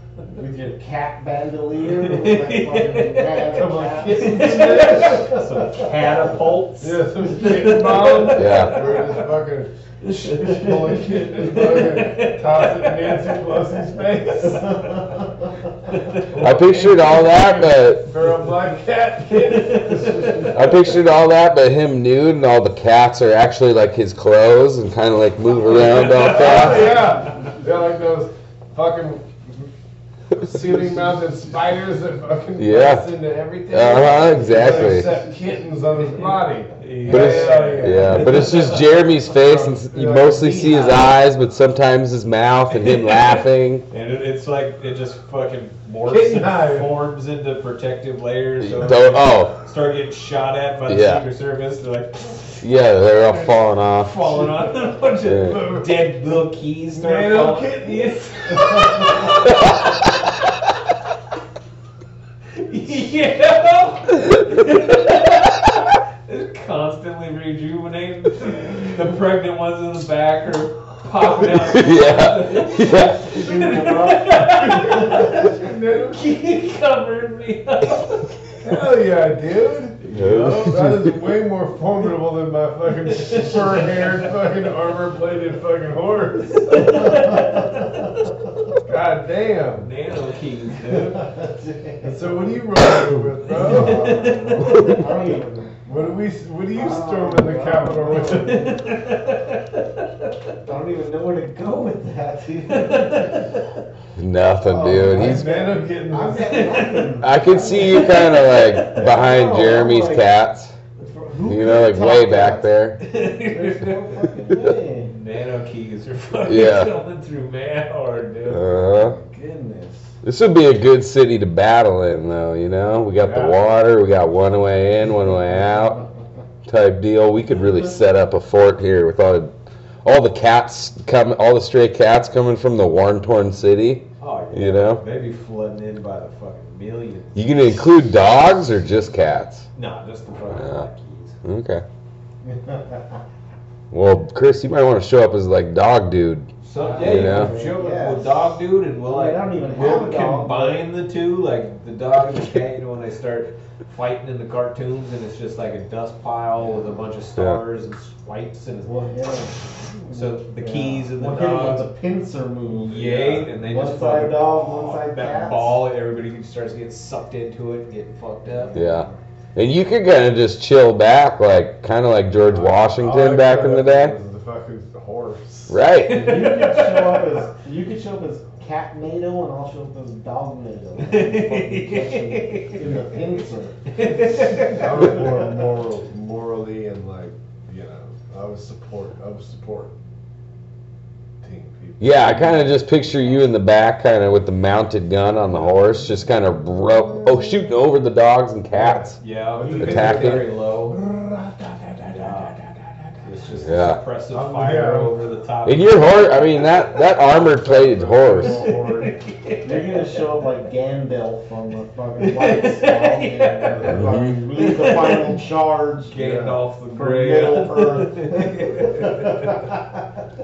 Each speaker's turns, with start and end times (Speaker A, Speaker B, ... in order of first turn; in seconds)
Speaker A: 0.3-6.3, 10.5-11.0, 14.6-15.5, 20.0-20.4, 34.7-35.1, 72.9-75.3, 86.8-88.1, 91.2-92.3, 93.5-95.9, 96.7-98.8, 100.6-103.5, 104.6-108.3, 108.9-110.3, 111.0-115.1, 118.9-120.1, 142.4-143.2, 146.9-150.8, 158.8-165.8, 168.6-169.2, 176.1-185.2, 209.6-216.2, 216.9-220.2
Speaker B: 1.8-9.3, 10.0-13.8, 15.9-17.2, 19.3-20.7, 25.6-27.1, 36.8-38.9, 42.9-52.7, 53.5-59.7, 62.5-78.3, 80.0-80.8, 83.1-84.0, 86.7-87.9, 89.8-91.4, 93.4-95.0, 98.2-100.3, 102.7-103.6, 106.4-107.2, 107.8-109.1, 113.0-114.3, 115.0-118.7, 134.2-137.6, 139.7-141.4, 146.6-158.9, 160.1-161.8, 162.7-168.8, 176.0-177.4, 181.0-183.0, 183.9-185.1, 199.2-201.0, 202.1-202.6, 203.2-206.7, 208.4-210.2, 212.2-214.0, 214.5-215.3, 216.1-219.7
Speaker C: 3.5-5.4, 6.8-15.0, 16.2-21.0, 25.9-29.7, 30.3-41.1, 46.1-47.0, 54.3-55.9, 56.9-59.5, 74.7-76.2, 78.6-87.3, 88.8-89.9, 92.0-94.4, 95.8-98.7, 105.0-106.7, 123.2-123.6, 172.4-175.8, 184.7-189.9, 191.4-193.4, 195.5-197.7, 198.7-203.2, 204.3-205.2, 207.2-209.2, 213.7-214.2, 216.2-216.6
Speaker D: 8.3-8.9, 16.4-18.1, 20.5-27.0, 32.6-33.1, 33.7-35.1, 37.0-43.9, 48.6-49.5, 50.9-51.2, 52.6-54.1, 55.2-55.6, 71.5-73.3, 80.1-81.1, 104.2-105.4, 107.2-110.7, 111.5-113.0, 116.5-116.9, 118.5-119.2, 120.2-126.0, 126.6-129.5, 130.0-135.0, 137.3-139.7, 140.5-140.9, 141.4-141.8, 143.9-146.5, 147.0-147.5, 168.7-174.2, 175.7-176.4, 192.0-199.2, 199.8-200.5, 203.6-204.0, 205.6-208.7, 214.0-214.3